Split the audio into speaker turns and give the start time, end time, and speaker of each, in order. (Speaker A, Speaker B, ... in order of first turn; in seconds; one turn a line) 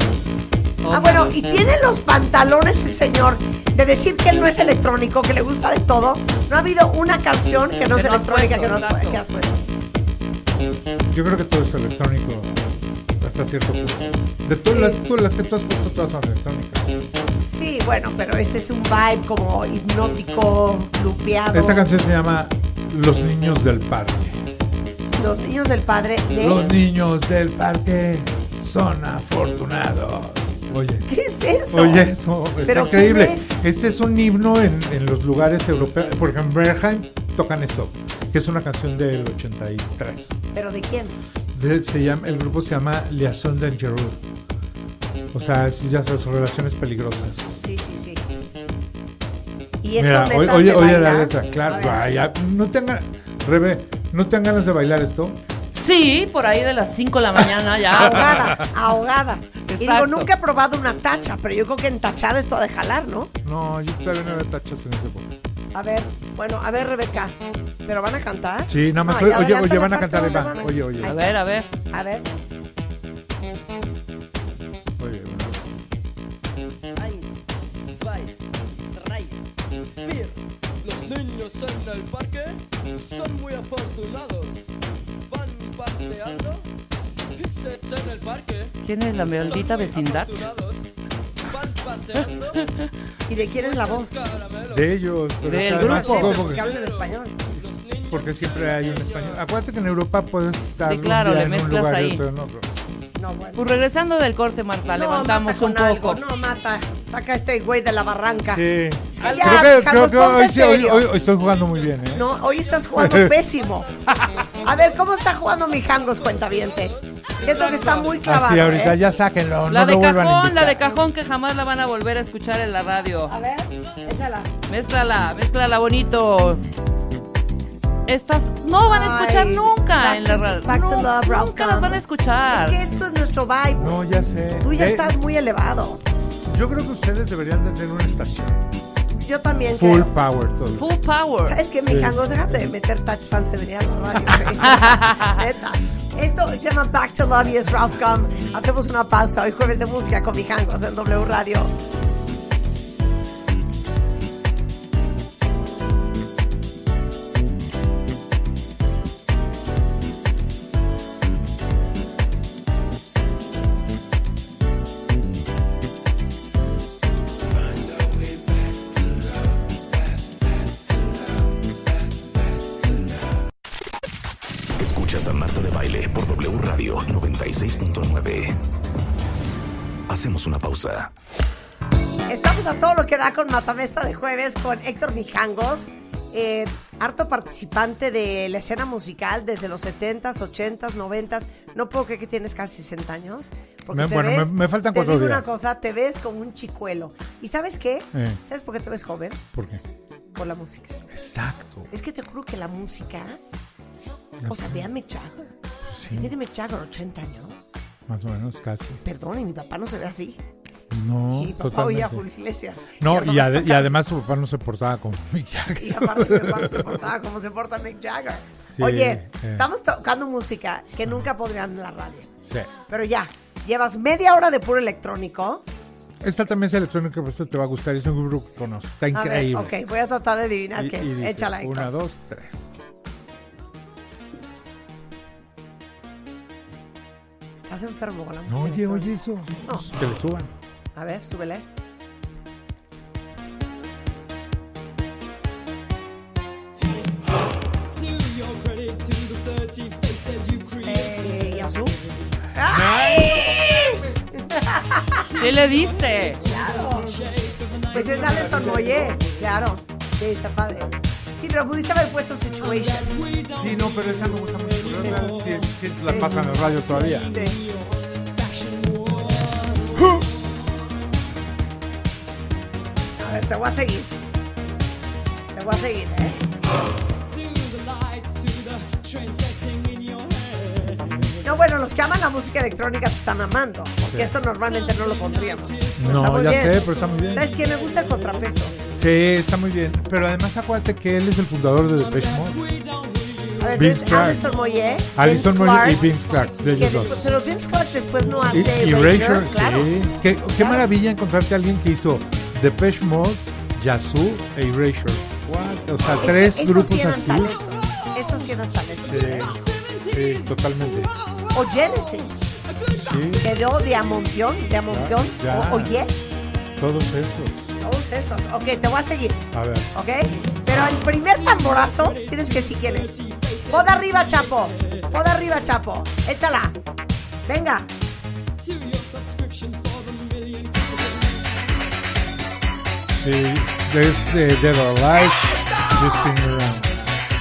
Speaker A: 0.8-1.4
Speaker B: 0.9-9.7
Speaker A: 7.9-9.2
Speaker C: 11.1-16.9
Speaker B: 14.6-15.0
Speaker B: 17.5-21.9
Speaker C: 21.5-24.4
Speaker B: 25.1-26.7
Speaker C: 26.4-31.1
Speaker B: 31.1-32.1
Speaker C: 31.7-40.4
Speaker B: 32.6-33.5
Speaker B: 40.5-41.2
Speaker C: 41.5-44.2
Speaker C: 45.3-47.5
Speaker B: 47.5-48.2
Speaker B: 49.8-52.0
Speaker C: 50.0-55.4
Speaker A: 55.7-58.5
Speaker B: 57.9-63.3
Speaker C: 58.2-58.7
Speaker A: 59.7-60.3
Speaker C: 63.4-65.3
Speaker B: 65.7-72.3
Speaker C: 68.7-71.2
Speaker A: 71.0-71.7
Speaker C: 75.0-75.7
Speaker D: 76.9-78.3
Speaker D: 78.9-79.4
Speaker D: 80.0-84.7
Speaker D: 85.3-86.7
Speaker D: 87.3-92.7
Speaker A: 88.8-90.5
Speaker B: 93.3-94.2
Speaker D: 93.3-99.5
Speaker C: 94.7-96.7
Speaker A: 95.4-96.3
Speaker B: 95.7-97.3
Speaker C: 98.1-102.7
Speaker A: 100.8-102.2
Speaker B: 103.2-103.7
Speaker A: 103.5-106.2
Speaker B: 104.9-111.1
Speaker C: 108.5-112.3
Speaker B: 112.1-113.9
Speaker C: 112.9-113.4
Speaker C: 114.1-114.4
Speaker D: 114.1-114.9
Speaker B: 114.6-119.0
Speaker D: 116.1-118.2
Speaker A: 117.4-118.1
Speaker C: 118.2-120.9
Speaker A: 119.7-123.3
Speaker B: 123.3-124.5
Speaker A: 124.7-126.6
Speaker A: 128.1-132.8
Speaker B: 128.8-134.0
Speaker C: 133.8-135.2
Speaker B: 134.6-136.0
Speaker C: 136.5-138.6
Speaker B: 139.1-140.1
Speaker C: 139.7-140.9
Speaker A: 140.7-141.6
Speaker B: 141.4-151.7
Speaker C: 141.8-142.7
Speaker A: 144.6-145.4
Speaker E: 174.8-178.6
Speaker E: 180.1-181.1
Speaker B: 182.3-199.4
Speaker C: 193.9-195.5
Speaker C: 198.1-198.4
Speaker C: 199.5-199.8
Speaker B: 200.3-201.1
Speaker C: 201.1-201.9
Speaker B: 201.9-203.4
Speaker C: 204.4-204.8
Speaker B: 204.4-205.5
Speaker C: 205.9-206.3
Speaker B: 206.1-207.6
Speaker C: 208.1-209.0
Speaker B: 209.0-210.4
Speaker C: 210.9-212.2
Speaker B: 211.3-213.9
Speaker C: 213.0-217.1
Speaker B: 215.8-222.3
Speaker C: 218.7-219.7
Speaker C: 222.4-222.8
Speaker B: 222.9-225.6
Speaker C: 226.2-229.8
Speaker B: 229.1-231.9
Speaker C: 230.7-232.7
Speaker B: 237.6-239.1
Speaker C: 238.5-240.5
Speaker B: 240.9-241.6
Speaker F: 248.0-251.4
Speaker B: 250.8-252.0
Speaker B: 252.5-255.4
Speaker C: 252.6-253.6
Speaker A: 255.3-256.4
Speaker F: 255.8-259.2
Speaker B: 256.4-257.3
Speaker B: 257.9-263.2
Speaker F: 263.3-265.6
Speaker C: 263.5-267.4
Speaker B: 266.0-267.6
Speaker F: 266.8-269.8
Speaker C: 269.9-270.2
Speaker B: 273.2-274.1
Speaker B: 275.5-276.4
Speaker F: 277.4-280.8
Speaker C: 281.0-281.4
Speaker B: 281.4-288.8
Speaker C: 284.0-284.4
Speaker F: 284.8-286.0
Speaker C: 285.9-287.5
Speaker F: 286.9-287.9
Speaker C: 288.9-292.6
Speaker F: 292.0-293.6
Speaker B: 293.6-299.9
Speaker C: 293.7-294.5
Speaker C: 295.1-297.3
Speaker F: 296.2-296.7
Speaker C: 298.5-307.6
Speaker B: 300.6-300.8
Speaker B: 306.2-309.6
Speaker C: 309.0-311.1
Speaker B: 311.5-312.5
Speaker C: 312.9-313.5
Speaker B: 313.4-316.4
Speaker C: 314.9-316.0
Speaker C: 316.8-317.6
Speaker B: 317.8-323.2
Speaker C: 319.5-319.9
Speaker F: 321.4-325.1
Speaker B: 323.7-326.8
Speaker B: 327.4-327.9
Speaker F: 328.6-331.9
Speaker C: 333.2-337.1
Speaker B: 335.1-336.3